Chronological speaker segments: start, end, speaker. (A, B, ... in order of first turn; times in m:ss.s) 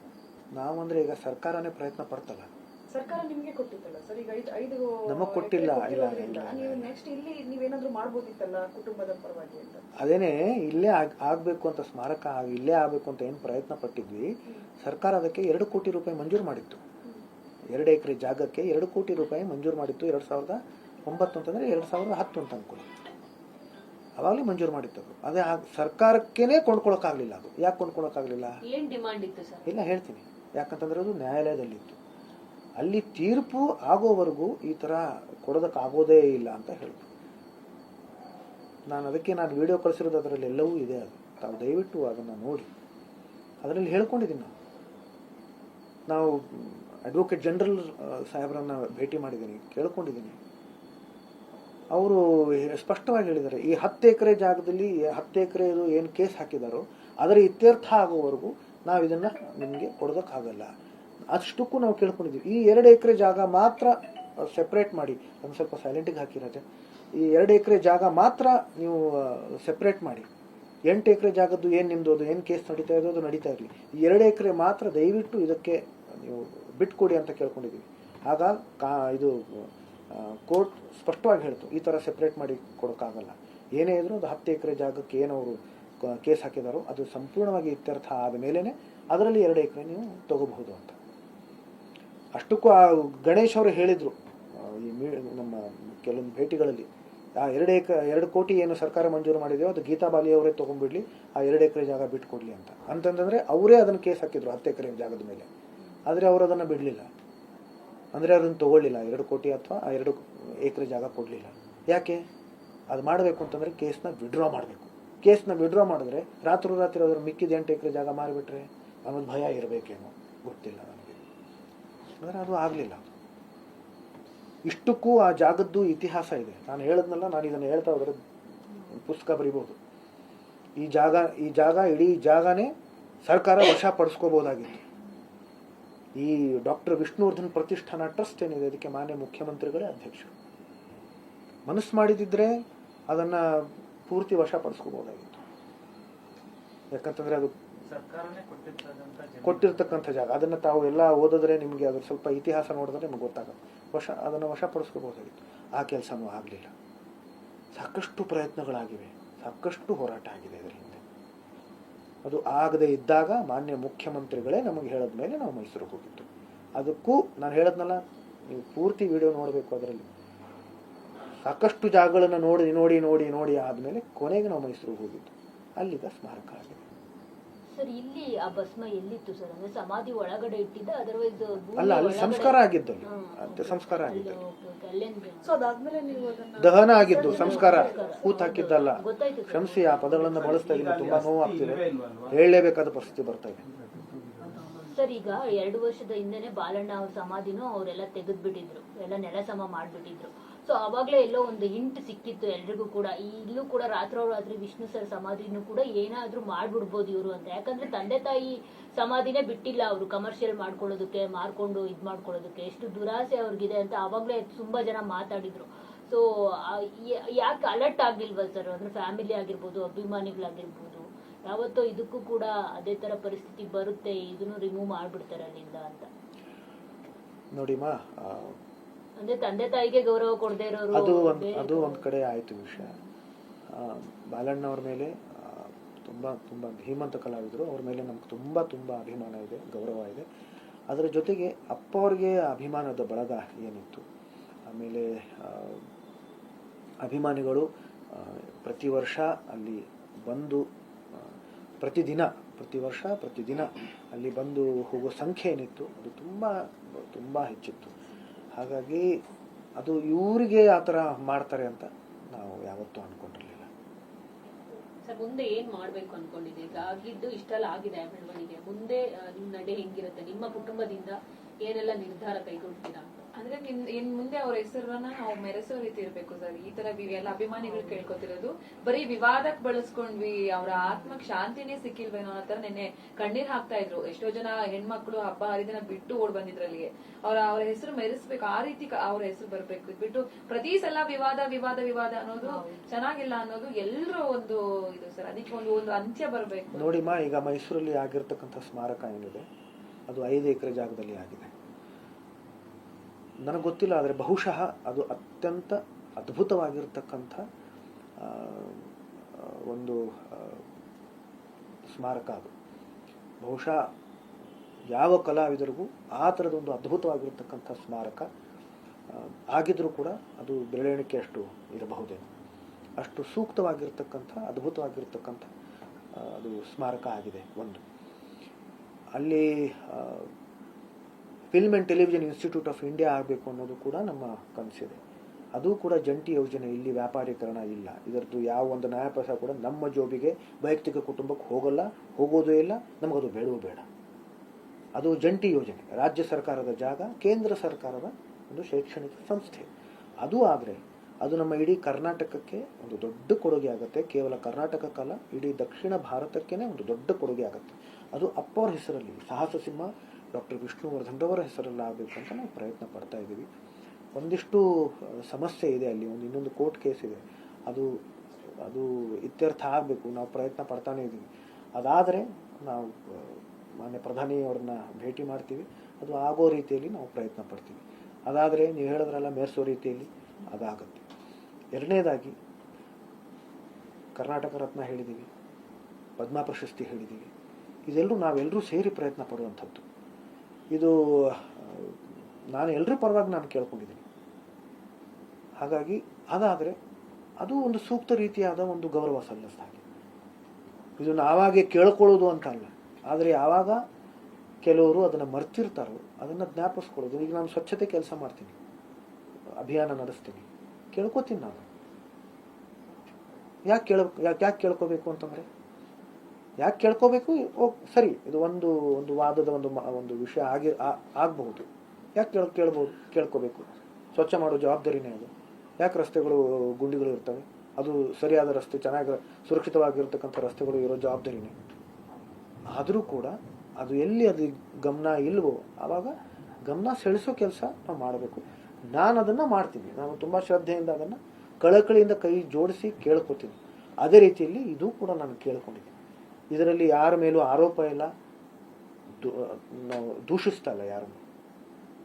0:00.5-0:02.5 A
0:02.9-0:09.8 B
0:05.1-0:06.9 A
0:10.0-0:16.8 A
0:17.7-0:22.9 A
0:24.2-0:28.6 A
0:28.7-0:29.8 C
0:29.6-0:32.0 A
0:32.8-0:37.1 A
0:38.9-0:42.7 A
0:43.6-0:44.5 A
0:46.1-0:50.4 A
0:51.9-1:00.7 A
1:01.3-1:06.6 A
1:07.2-1:10.3 A
1:10.9-1:31.0 A
1:32.4-1:45.5 A
1:46.1-1:47.1 A
1:48.1-1:52.2 A
1:52.9-2:01.2 A
2:02.2-2:03.1 A
2:04.7-2:08.2 A
2:08.9-2:09.8 A
2:10.8-2:12.7 A
2:13.2-2:14.8 A
2:16.2-2:20.3 A
2:21.7-2:25.4 A
2:26.9-2:27.5 A
2:27.9-2:30.1 D
2:29.4-2:36.7 A
2:37.8-2:41.0 A
2:42.2-2:46.3 A
2:46.8-2:50.1 A
2:51.4-2:56.9 A
2:57.7-3:05.6 E
3:01.8-3:04.4 A
3:05.4-3:08.4 B
3:06.6-3:13.6 A
3:07.1-3:10.3 E
3:10.3-3:12.4 D
3:13.7-3:14.8 D
3:14.4-3:14.7 C
3:14.9-3:46.1 E
3:47.5-3:48.6 A
3:49.2-3:52.0 E
3:50.9-3:53.0 A
3:53.7-4:00.3 A
4:00.9-4:04.0 A
4:04.7-4:05.8 A
4:07.0-4:10.6 A
4:11.8-4:17.9 A
4:18.6-4:19.1 A
4:19.8-4:23.7 A
4:25.1-4:33.1 C
4:33.4-4:57.2 F
4:56.7-4:59.5 A
5:00.1-5:01.5 A
5:03.4-5:07.4 A
5:08.2-5:10.6 A
5:11.9-5:12.5 A
5:13.4-5:13.8 A
5:14.9-5:18.3 A
5:19.1-5:22.3 A
5:23.0-5:25.5 A
5:26.2-5:27.8 A
5:29.2-5:30.3 A
5:31.5-5:35.0 A
5:35.6-5:43.8 A
5:45.0-5:49.7 A
5:50.2-6:03.5 A
6:04.2-6:07.9 A
6:08.6-6:21.0 A
6:21.7-6:22.4 A
6:24.2-6:25.3 A
6:26.2-6:27.3 A
6:27.9-6:29.8 A
6:30.7-6:32.0 A
6:32.5-6:34.0 A
6:35.6-6:36.8 A
6:37.4-6:39.8 A
6:41.0-6:43.8 A
6:44.6-6:48.6 A
6:49.6-6:51.6 A
6:53.7-6:55.5 A
6:56.6-7:11.6 A
7:12.7-7:16.1 A
7:16.7-7:26.0 A
7:26.5-7:28.1 A
7:29.2-7:31.2 A